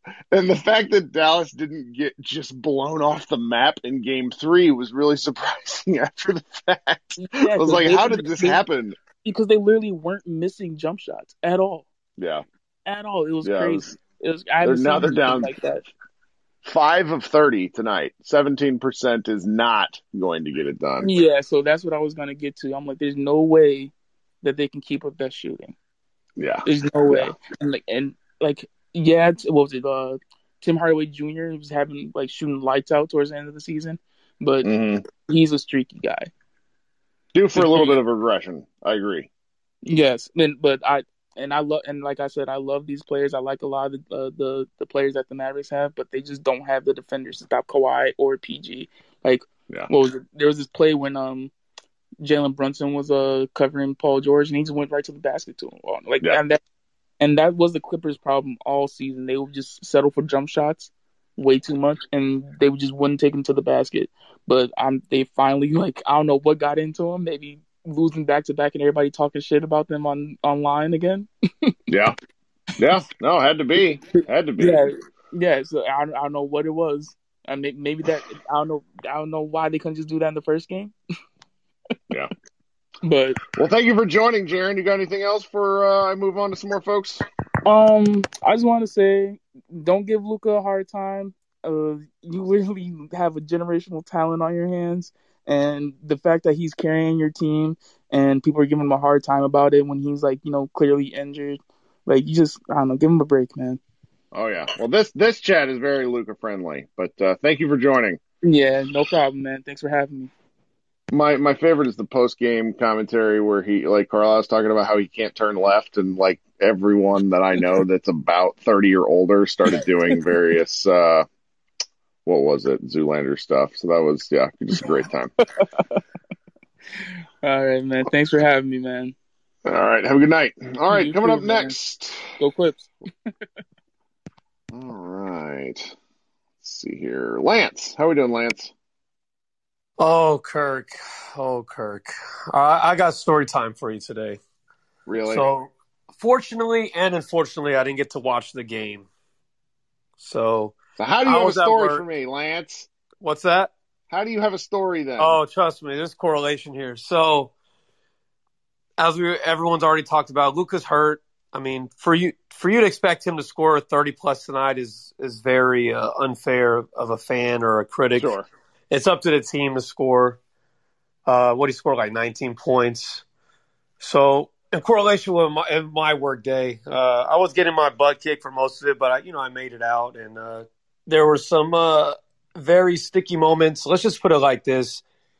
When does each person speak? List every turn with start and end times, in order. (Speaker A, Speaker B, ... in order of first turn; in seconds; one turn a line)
Speaker A: 0.3-9.0
Speaker B: 7.2-8.6
Speaker B: 9.2-11.9
Speaker A: 12.2-12.4
Speaker B: 12.8-15.8
Speaker A: 13.4-13.9
Speaker A: 14.6-15.7
Speaker A: 16.6-21.1
Speaker B: 21.0-23.9
Speaker B: 24.4-25.8
Speaker A: 26.4-27.3
Speaker B: 26.6-36.3
Speaker A: 34.6-35.0
Speaker A: 37.3-39.3
Speaker B: 37.5-38.0
Speaker B: 39.8-51.5
Speaker B: 52.2-56.6
Speaker B: 57.2-71.7
Speaker A: 71.9-72.1
Speaker A: 72.8-74.8
Speaker B: 74.6-80.9
Speaker B: 83.0-83.4
Speaker A: 83.5-87.2
Speaker B: 87.6-103.8
Speaker A: 104.3-108.2
Speaker B: 108.4-110.3
Speaker A: 111.1-121.2
Speaker A: 122.2-125.3
Speaker B: 125.6-126.0
Speaker B: 127.4-129.1
Speaker A: 129.7-132.2
Speaker B: 130.9-131.7
Speaker B: 132.4-132.9
Speaker A: 134.7-135.9
Speaker A: 136.6-138.7
Speaker C: 140.0-144.4
Speaker A: 145.1-145.5
Speaker C: 145.2-149.1
Speaker C: 150.2-152.0
Speaker A: 151.0-152.9
Speaker C: 153.2-153.7
Speaker A: 154.1-155.4
Speaker C: 155.2-157.5
Speaker C: 159.0-170.4
Speaker A: 168.2-168.4
Speaker C: 171.2-173.2
Speaker C: 174.0-185.0